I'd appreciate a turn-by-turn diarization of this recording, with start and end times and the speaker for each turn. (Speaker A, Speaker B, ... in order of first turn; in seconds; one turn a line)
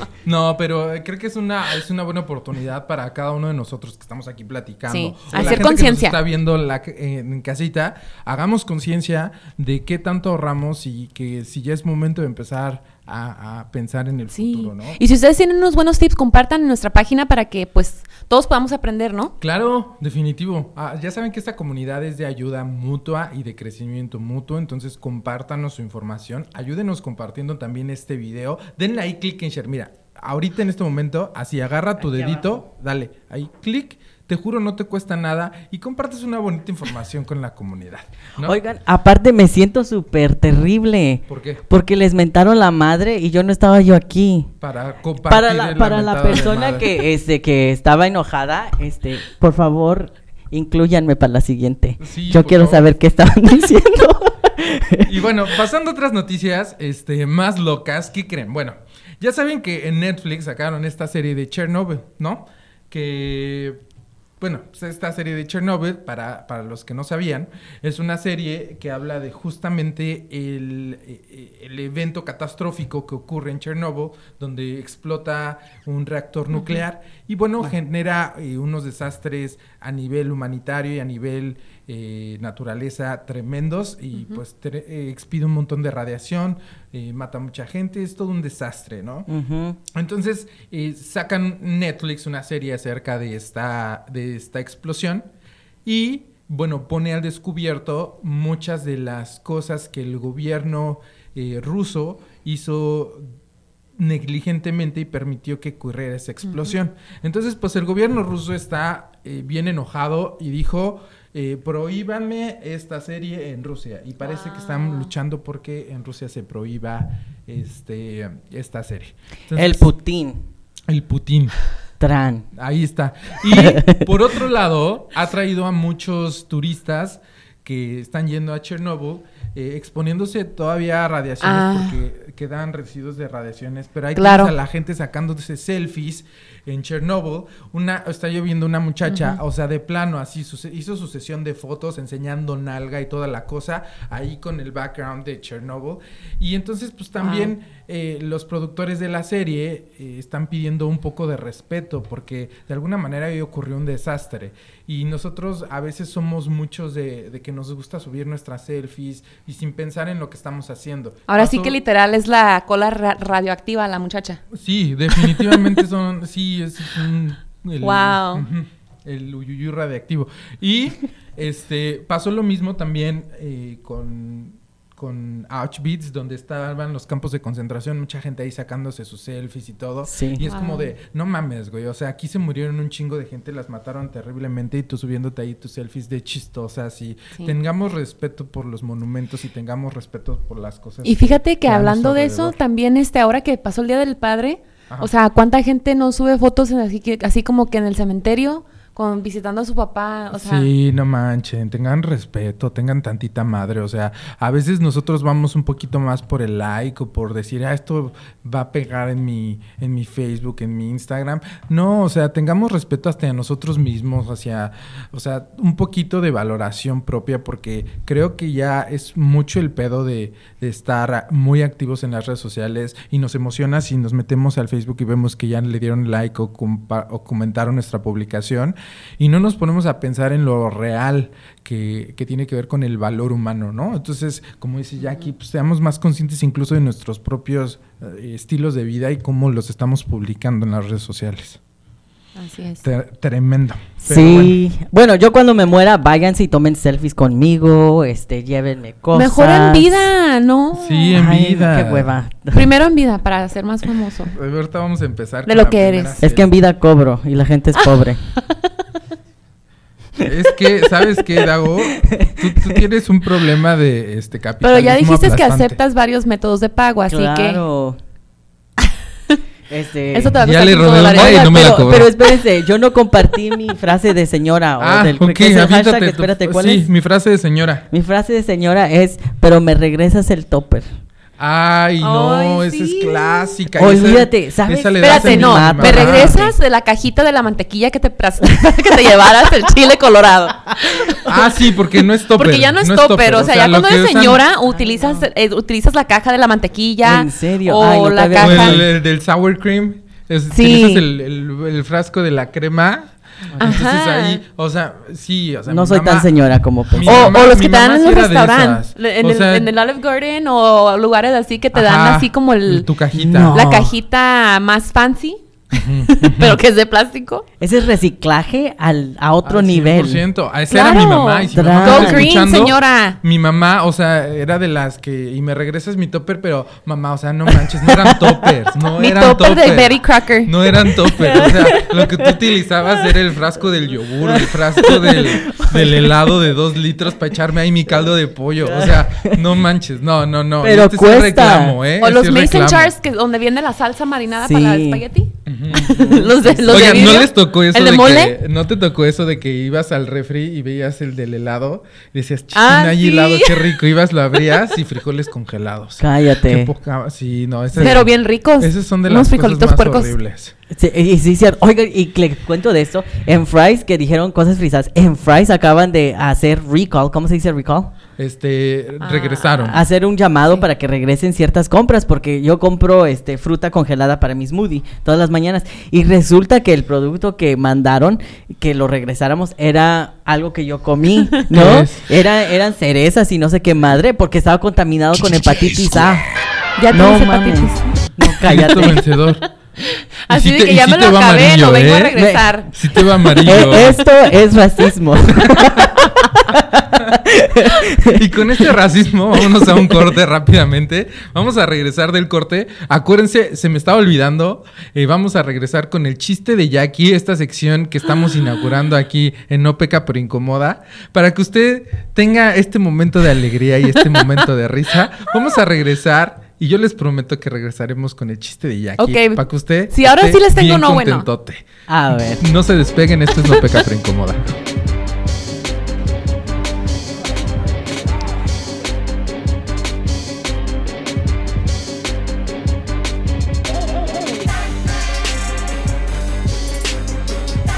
Speaker A: 0.2-15.0
Speaker B: 4.9-6.2
Speaker C: 5.3-5.6
Speaker B: 14.3-19.3
Speaker A: 19.4-38.6
Speaker C: 32.0-32.6
Speaker C: 38.4-44.5
Speaker A: 41.3-41.6
Speaker A: 44.6-46.9
Speaker C: 45.3-55.1
Speaker A: 52.0-52.9
Speaker A: 55.0-63.8
Speaker A: 64.4-89.3
Speaker C: 89.3-89.8
Speaker A: 89.9-95.3
Speaker A: 95.8-103.2
Speaker A: 104.0-119.9
Speaker B: 106.4-106.7
Speaker B: 114.2-115.1
Speaker C: 119.5-120.4
Speaker A: 120.9-121.5
Speaker C: 122.0-122.5
Speaker A: 122.5-161.8
Speaker C: 123.5-124.1
Speaker B: 131.4-131.9
Speaker B: 134.2-134.5
Speaker B: 139.1-139.4
Speaker B: 147.2-147.5
Speaker B: 161.3-164.4
Speaker A: 164.5-192.6
Speaker B: 167.8-168.4
Speaker C: 180.1-180.4
Speaker B: 180.5-180.9
Speaker B: 191.0-200.7
Speaker A: 200.3-241.6
Speaker B: 242.3-242.8
Speaker A: 242.8-244.6
Speaker C: 244.0-250.1
Speaker B: 249.1-251.2
Speaker A: 250.7-252.1
Speaker C: 251.1-252.7
Speaker B: 252.5-254.3
Speaker A: 254.3-256.5
Speaker B: 255.4-256.2
Speaker C: 256.2-258.3
Speaker A: 260.2-265.8
Speaker C: 261.9-262.8
Speaker B: 264.6-267.6
Speaker C: 267.1-268.0
Speaker C: 269.7-276.9
Speaker B: 270.1-271.7
Speaker A: 270.4-272.1
Speaker A: 274.8-277.9
Speaker C: 277.9-280.9
Speaker A: 281.4-286.4
Speaker B: 282.0-283.6
Speaker C: 283.8-286.5
Speaker B: 285.0-291.2
Speaker A: 291.2-294.4
Speaker B: 292.3-298.8
Speaker C: 294.6-295.2
Speaker C: 297.0-298.9
Speaker A: 298.4-306.3
Speaker B: 300.5-301.0
Speaker C: 303.5-303.8
Speaker B: 303.6-304.4
Speaker C: 305.7-307.4
Speaker A: 306.9-309.7
Speaker B: 307.0-312.9
Speaker A: 311.7-313.6
Speaker C: 313.1-313.9
Speaker B: 313.5-317.4
Speaker A: 315.7-316.6
Speaker C: 317.6-320.2
Speaker A: 319.4-342.9
Speaker B: 320.7-323.2
Speaker C: 321.5-322.3
Speaker B: 329.0-330.5
Speaker C: 331.2-332.4
Speaker C: 334.2-336.1
Speaker C: 338.6-339.5
Speaker C: 340.6-341.8
Speaker B: 342.0-348.3
Speaker C: 344.4-345.0
Speaker A: 345.4-346.0
Speaker C: 345.8-347.2
Speaker A: 346.7-360.5
Speaker B: 352.5-353.8
Speaker C: 356.0-356.7
Speaker B: 357.8-360.1
Speaker C: 360.7-367.9
Speaker A: 368.2-369.8
Speaker B: 369.0-369.5
Speaker C: 369.6-386.3
Speaker A: 381.5-382.0
Speaker B: 386.8-387.9
Speaker C: 386.9-389.0
Speaker A: 388.4-389.5
Speaker B: 390.3-392.7
Speaker A: 390.3-392.1
Speaker C: 392.1-392.5
Speaker A: 392.7-394.0
Speaker C: 393.4-398.7
Speaker A: 398.0-424.6
Speaker C: 399.5-400.0
Speaker B: 419.0-421.3
Speaker C: 421.9-422.4